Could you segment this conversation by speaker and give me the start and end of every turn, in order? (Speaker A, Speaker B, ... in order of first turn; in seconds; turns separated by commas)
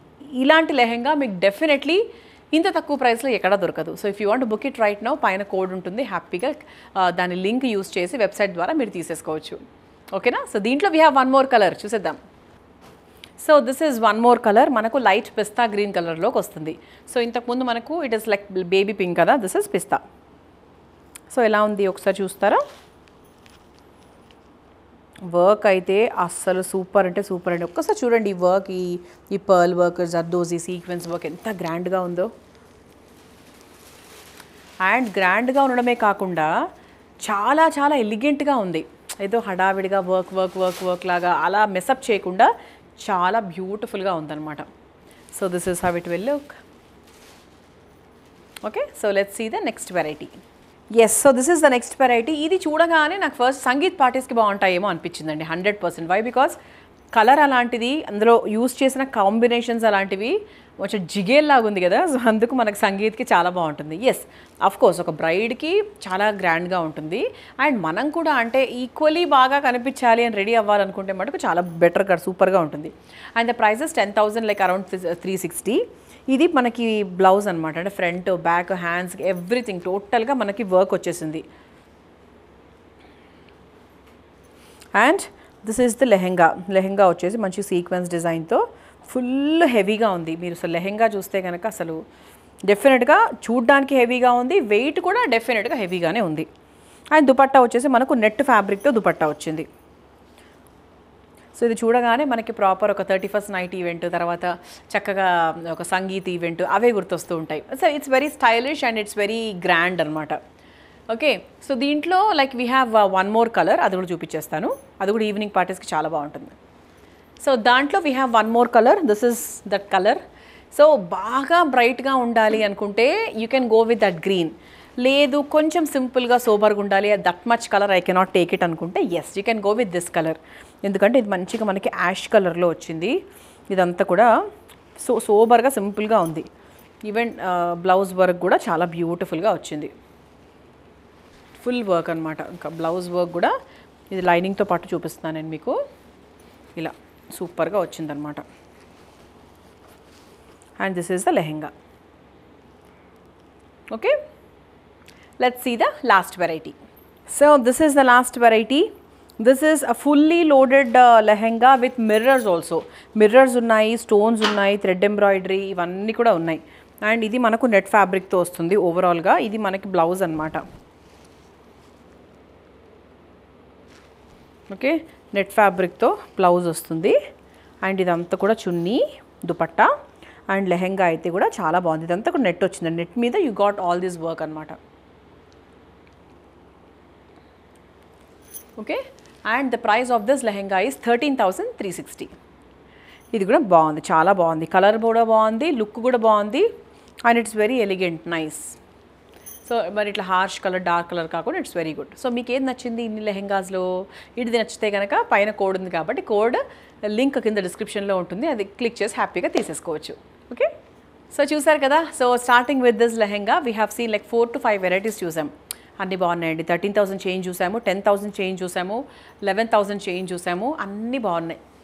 Speaker A: 0.4-9.6, Speaker A: 10.1-12.2, Speaker A: 13.4-20.0, Speaker A: 21.3-22.6, Speaker A: 25.3-32.3, Speaker A: 34.9-36.5, Speaker A: 37.2-42.5, Speaker A: 43.0-44.6, Speaker A: 45.3-46.6, Speaker A: 48.6-50.4, Speaker A: 50.9-56.5, Speaker A: 57.1-81.4, Speaker A: 84.9-92.0, Speaker A: 92.7-96.5, Speaker A: 97.1-99.7, Speaker A: 101.5-110.4, Speaker A: 111.1-116.5, Speaker A: 117.4-120.2, Speaker A: 120.7-133.2, Speaker A: 133.7-134.3, Speaker A: 135.0-136.5, Speaker A: 137.1-139.9, Speaker A: 141.6-143.5, Speaker A: 144.1-145.8, Speaker A: 146.8-148.4, Speaker A: 150.8-151.7, Speaker A: 153.9-154.2, Speaker A: 155.4-156.8, Speaker A: 157.3-158.9, Speaker A: 159.4-170.6, Speaker A: 174.7-177.2, Speaker A: 177.8-179.9, Speaker A: 180.5-184.8, Speaker A: 188.8-192.3, Speaker A: 193.3-196.7, Speaker A: 197.2-198.8, Speaker A: 199.6-210.7, Speaker A: 211.3-221.6